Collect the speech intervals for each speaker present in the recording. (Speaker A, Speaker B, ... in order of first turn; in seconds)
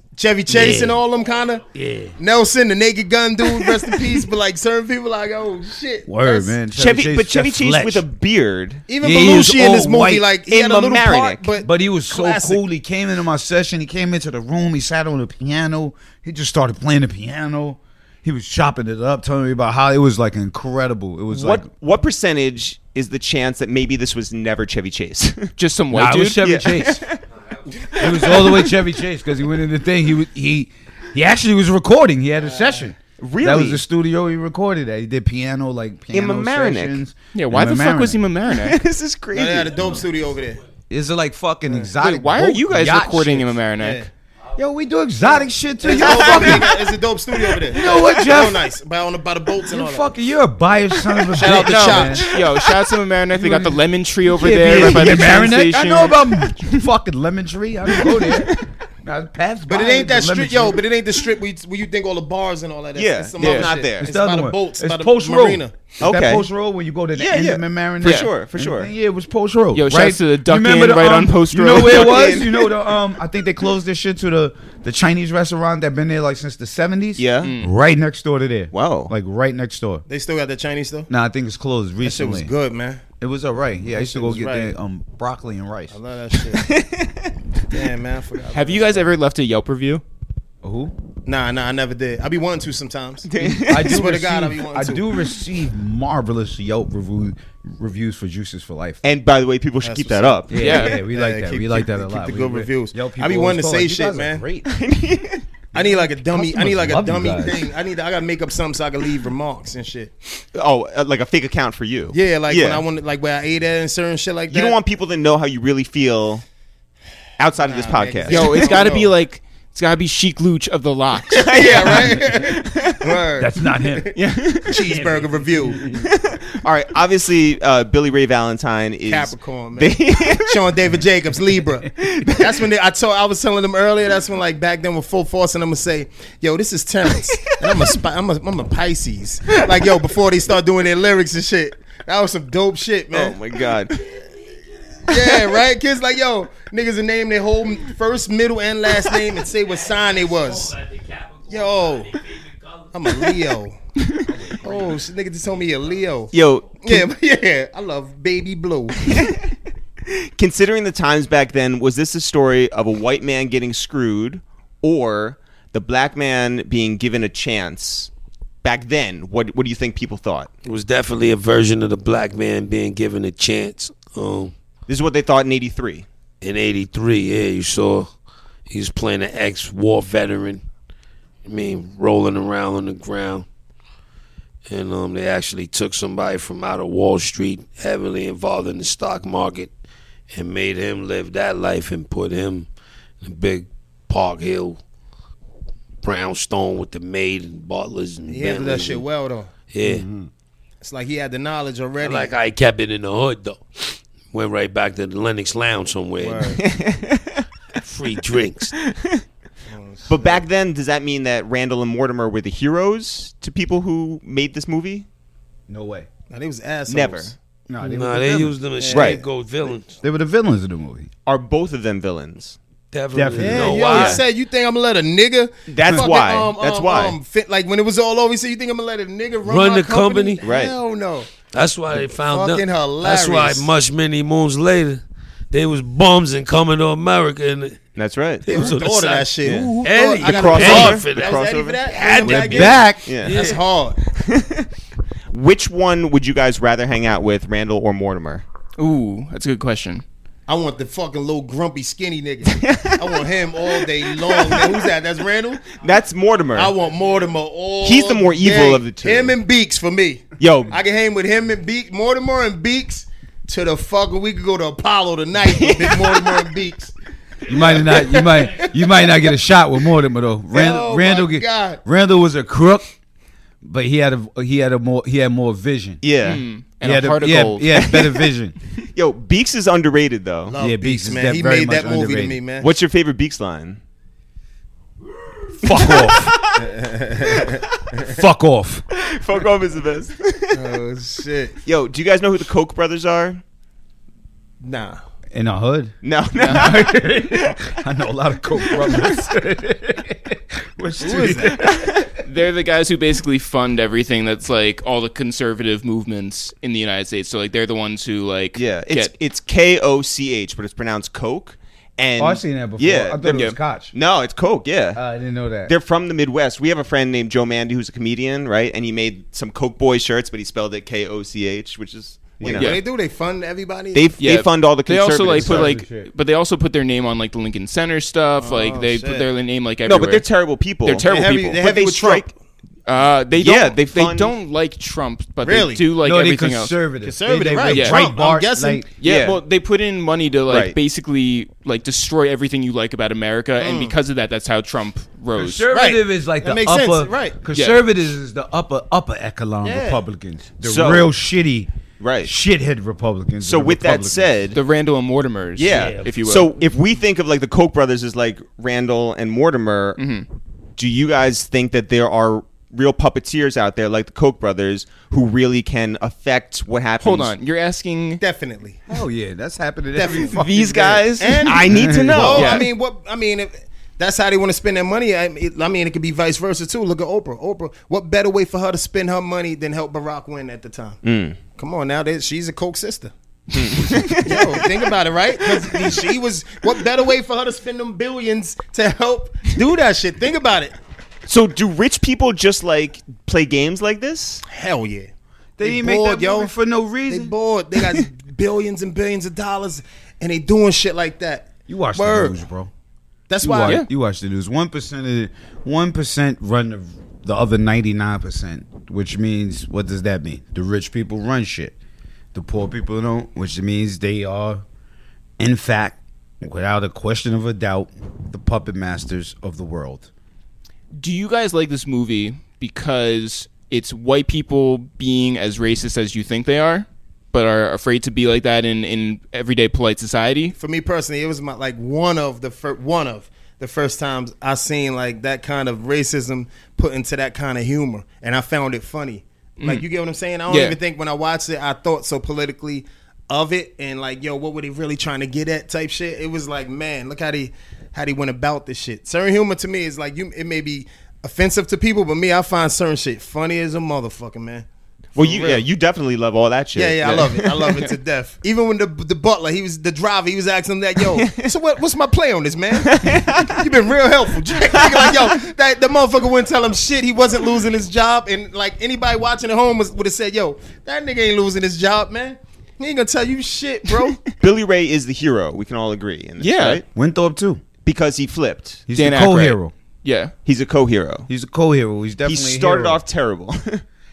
Speaker A: 0.1-6.6, 8.9-12.6, 32.5-32.9, 39.3-40.6, 43.8-44.1, 45.8-50.1, 51.3-52.3, 59.7-65.8, 80.1-81.1, 82.0-83.0, 83.9-84.8, 85.9-86.7, 87.7-89.1, 91.2-95.0, 99.8-104.4, 105.7-110.2, 112.1-114.8, 117.6-119.1, 121.3-125.8, 129.1-144.0, 145.0-150.8, 151.5-152.1, 152.9-153.8, 154.6-159.1, 198.3-199.5, 200.8-202.3, 206.2-206.6, 209.7-210.4, 216.3-217.3, 218.8-219.2, 223.4-231.3, 232.2-233.7, 238.5-244.0, 250.5-255.7, 256.5-266.9, 267.5-268.9, 270.5-271.8, 280.5-282.7, 286.6-287.6, 290.5-291.6, 294.6-295.0, 301.0-301.6, 322.5-324.1, 328.4-329.3, 331.1-332.3, 335.4-335.9, 337.0-338.9, 343.6-343.9, 345.7-347.4, 349.6-350.0, 368.2-368.8, 369.9-370.4, 371.1-381.0, 381.5-383.1, 384.2-390.7, 394.5-395.1, 395.6-396.5, 397.1-402.4, 403.3-403.8, 430.6-455.6, 456.7-474.2
Speaker B: 0.5-1.0, 1.7-2.1, 6.0-8.0, 9.0-10.2, 11.6-21.7, 25.9-27.0, 27.9-38.2, 40.9-43.6, 44.5-46.9, 47.6-48.7, 49.6-52.2, 53.3-60.8, 64.0-80.0, 81.1-82.5, 83.2-85.9, 90.6-90.9, 93.4-99.0, 100.5-104.7, 105.7-107.7, 123.4-124.2, 124.7-126.0, 154.3-155.0, 199.8-200.3, 215.7-216.1, 217.7-218.6, 220.0-221.1, 223.1-223.9, 242.2-243.2, 267.5-272.9, 273.6-276.0, 276.8-278.6, 280.6-282.4, 285.6-286.4, 288.0-288.9, 295.3-302.1, 312.2-313.9, 314.9-315.7, 322.4-322.7, 325.3-326.1, 336.0-338.9, 345.4-351.7, 352.2-354.3, 355.7-356.2, 368.9-371.1, 371.7-372.4, 395.6-397.3, 401.7-402.7, 403.4-411.8, 412.3-414.6, 415.4-420.1, 476.9-477.6, 478.9-479.7, 481.3-483.0
Speaker C: 6.7-8.8, 10.5-11.5, 21.3-25.5, 26.4-27.2, 28.0-28.4, 33.2-33.8, 36.1-37.0, 38.5-40.0, 46.0-46.6, 47.8-48.1, 63.0-64.1, 66.0-66.5, 67.1-68.9, 71.7-72.6, 77.2-77.5, 78.7-79.1, 86.5-87.3, 93.2-94.0, 99.0-100.5, 104.7-105.4, 110.5-112.8, 114.5-116.4, 117.4-118.7, 121.3-123.1, 126.0-130.6, 132.0-132.5, 137.2-138.0, 143.1-144.0, 156.3-157.1, 159.0-159.5, 160.1-168.1, 168.6-170.5, 174.9-176.1, 206.6-207.5, 208.8-209.2, 210.1-215.1, 216.9-217.3, 218.9-219.2, 221.2-222.6, 223.8-224.2, 225.7-227.2, 230.4-230.8, 238.0-238.5, 239.4-241.8, 242.5-243.4, 244.1-244.7, 245.3-248.4, 252.5-254.8, 255.7-256.7, 257.8-259.4, 260.4-260.8, 265.5-266.4, 276.0-276.4, 277.7-278.1, 278.9-280.6, 282.6-283.8, 285.6-287.6, 288.9-290.7, 291.6-293.4, 296.0-297.6, 298.8-299.0, 301.6-301.9, 308.6-313.4, 313.9-315.0, 315.6-322.8, 323.9-325.7, 329.9-332.3, 333.4-334.3, 339.0-339.4, 340.5-340.8, 350.6-351.1, 352.0-352.3, 353.4-354.6, 355.6-360.0, 360.8-367.3, 371.4-372.6, 381.0-381.4, 383.5-384.6, 391.3-394.4, 455.1-457.9, 461.1-461.5, 462.9-463.6, 464.7-465.3, 474.3-476.8, 477.9-478.8, 480.4-481.3, 482.2-483.8
Speaker D: 25.6-26.5, 37.3-38.8, 42.0-44.1, 51.5-56.4, 63.4-63.7, 68.0-68.3, 69.7-72.5, 77.4-77.7, 88.5-90.0, 100.6-101.0, 118.3-122.0, 124.1-124.8, 248.8-250.0, 276.2-277.9, 296.4-296.7, 302.1-309.1, 313.2-313.6, 324.2-330.2, 330.9-331.6, 332.9-336.8, 337.7-338.1, 339.0-345.6, 347.5-347.8, 354.5-356.5, 360.0-360.2, 367.0-368.2, 370.2-371.6, 372.3-372.7, 420.9-430.6, 439.6-439.9, 440.5-440.8, 476.4-476.8, 478.9-480.3
Speaker E: 170.6-174.5, 176.4-178.1, 178.7-180.6, 181.4-183.5, 184.7-189.7, 190.3-192.7, 193.2-194.8, 196.0-199.0, 199.7-200.1, 202.0-206.6, 207.8-208.7, 217.8-220.0, 222.9-224.2, 229.4-230.4, 231.4-237.8, 238.4-243.6